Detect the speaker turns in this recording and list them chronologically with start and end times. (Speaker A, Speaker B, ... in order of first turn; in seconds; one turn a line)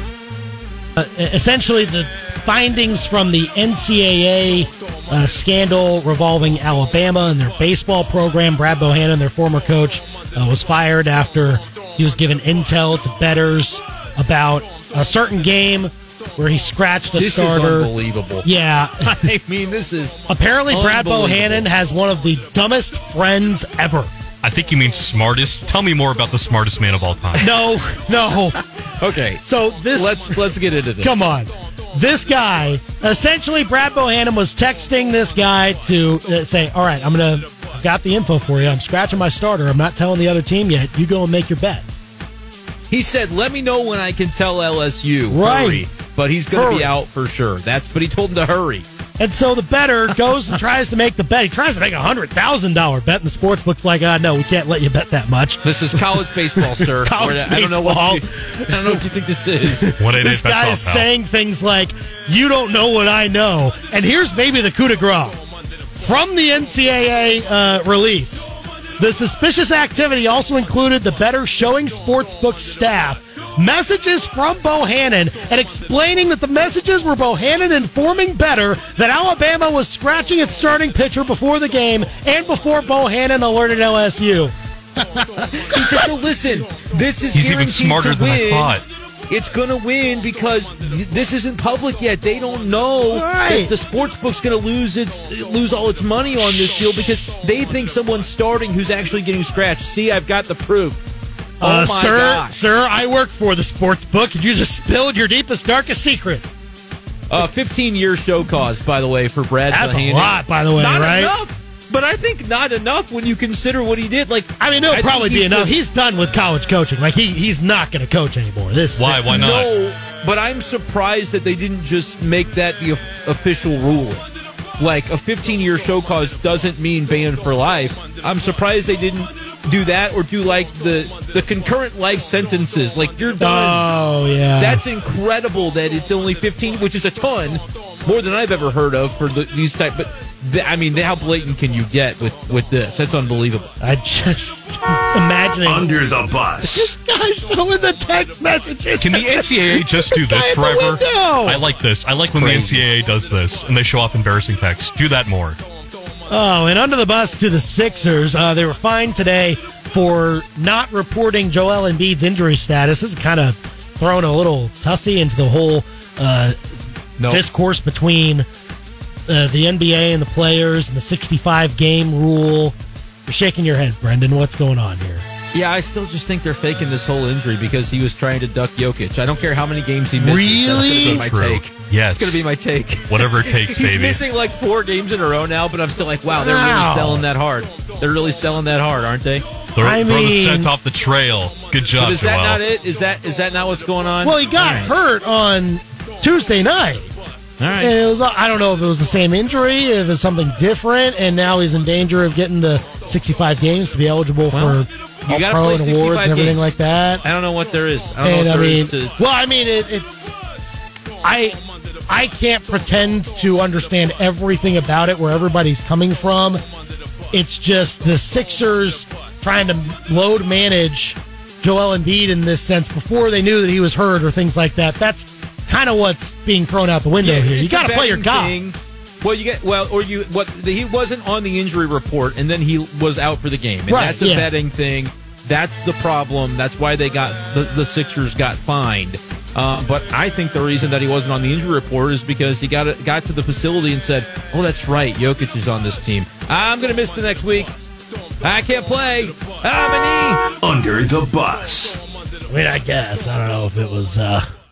Speaker A: 1.0-17.9
Speaker B: 17.2-18.4
Speaker A: 18.4-19.2
Speaker B: 19.0-21.6
Speaker A: 20.3-24.1
Speaker C: 24.4-27.5
Speaker A: 27.4-28.6
Speaker B: 29.0-29.4
Speaker A: 29.4-30.4
Speaker B: 29.9-31.2
Speaker A: 31.0-41.9
Speaker B: 42.9-48.9
Speaker A: 45.3-45.9
Speaker A: 46.5-46.9
Speaker A: 49.2-59.0
Speaker B: 55.6-59.9
Speaker A: 59.7-65.4
Speaker C: 60.0-61.1
Speaker A: 66.0-86.1
Speaker B: 85.7-88.8
Speaker C: 87.3-88.8
Speaker B: 89.3-101.0
Speaker A: 93.1-93.7
Speaker B: 101.6-102.6
Speaker A: 101.6-106.5
Speaker B: 107.3-115.7
Speaker A: 109.7-111.3
Speaker A: 114.6-119.3
Speaker C: 119.0-119.7
Speaker B: 119.2-124.2
Speaker B: 124.8-133.8
Speaker A: 133.4-134.8
Speaker B: 134.6-143.7
Speaker A: 143.8-145.9
Speaker D: 145.6-146.9
Speaker A: 146.6-151.6
Speaker C: 149.0-155.6
Speaker B: 152.3-152.9
Speaker A: 156.3-166.6
Speaker A: 167.3-168.4
Speaker A: 169.3-175.2
Speaker B: 175.5-189.4
Speaker A: 180.2-181.2
Speaker C: 180.8-182.5
Speaker C: 183.1-184.2
Speaker A: 186.3-187.2
Speaker C: 189.8-192.6
Speaker A: 189.8-190.7
Speaker B: 192.0-194.9
Speaker A: 194.2-197.1
Speaker B: 197.6-197.9
Speaker A: 197.8-207.2
Speaker B: 204.5-209.1
Speaker A: 208.2-210.4
Speaker A: 211.2-216.6
Speaker A: 217.3-228.6
Speaker B: 227.2-247.8
Speaker A: 233.9-234.5
Speaker B: 248.4-250.4
Speaker D: 250.6-252.0
Speaker A: 252.5-254.4